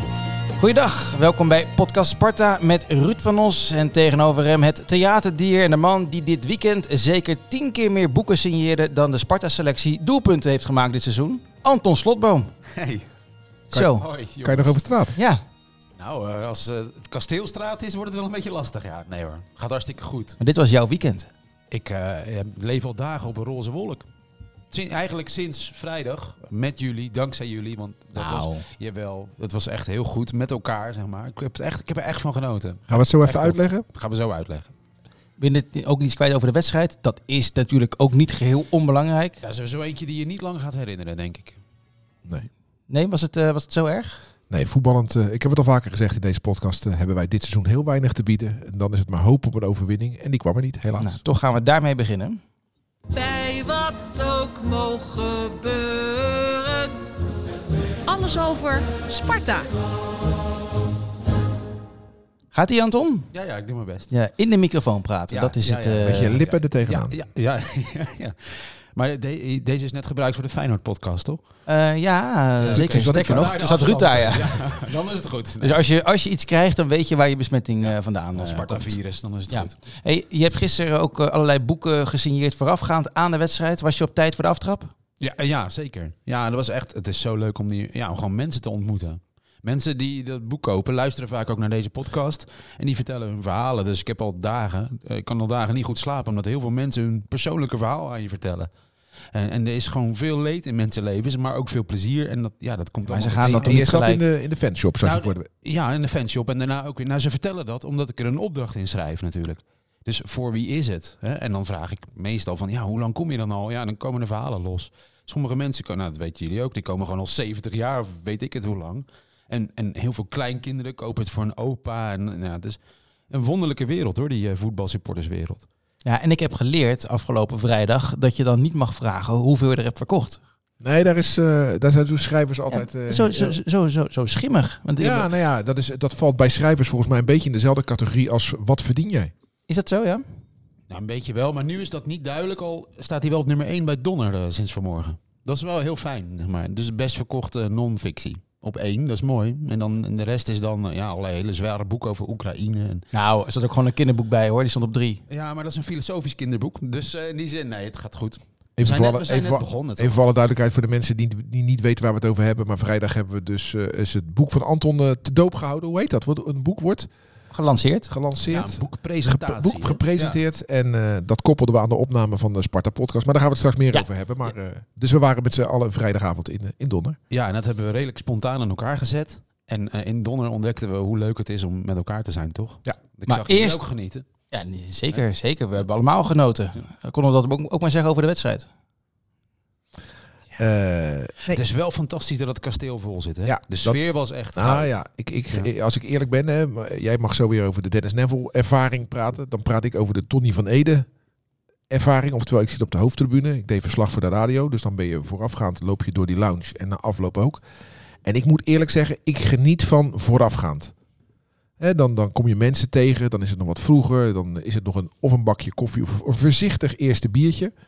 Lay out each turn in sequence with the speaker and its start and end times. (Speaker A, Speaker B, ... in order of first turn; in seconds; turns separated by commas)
Speaker A: 0.6-12.5, Speaker B: 12.7-13.1, Speaker A: 13.7-14.1, Speaker B: 13.8-14.8, Speaker C: 14.4-15.2, Speaker A: 15.2-15.4, Speaker B: 16.0-20.4, Speaker A: 20.4-21.3, Speaker B: 21.7-24.1, Speaker B: 24.7-34.7, Speaker A: 28.1-28.7, Speaker C: 32.9-33.8, Speaker A: 35.4-39.4, Speaker B: 39.4-41.6, Speaker A: 42.9-44.2, Speaker C: 44.5-51.2, Speaker A: 51.0-52.4, Speaker D: 53.1-57.0, Speaker D: 58.0-59.7, Speaker A: 62.5-63.3, Speaker B: 63.3-64.1, Speaker A: 64.1-66.4, Speaker B: 65.3-71.4, Speaker C: 66.0-67.2, Speaker A: 71.7-74.8, Speaker B: 72.6-75.8, Speaker C: 72.7-73.6, Speaker A: 75.6-79.0, Speaker B: 77.8-79.8, Speaker A: 79.5-84.9, Speaker B: 85.2-98.7, Speaker B: 99.3-103.8, Speaker A: 103.1-104.2, Speaker C: 103.4-105.5, Speaker B: 105.0-122.8, Speaker B: 123.3-125.7, Speaker A: 126.0-130.4, Speaker C: 130.8-133.6, Speaker A: 132.7-135.3, Speaker C: 135.0-139.3, Speaker A: 139.7-140.2, Speaker B: 140.9-153.0, Speaker A: 153.1-155.2, Speaker B: 155.3-160.2, Speaker C: 158.8-167.1, Speaker A: 167.5-168.1, Speaker C: 168.1-177.2, Speaker B: 168.4-170.4, Speaker B: 177.3-184.2, Speaker A: 183.3-183.8, Speaker A: 184.5-188.7, Speaker C: 190.6-191.6, Speaker B: 191.5-194.9, Speaker C: 193.4-201.1, Speaker C: 201.9-207.6, Speaker C: 208.2-210.9, Speaker C: 211.8-217.7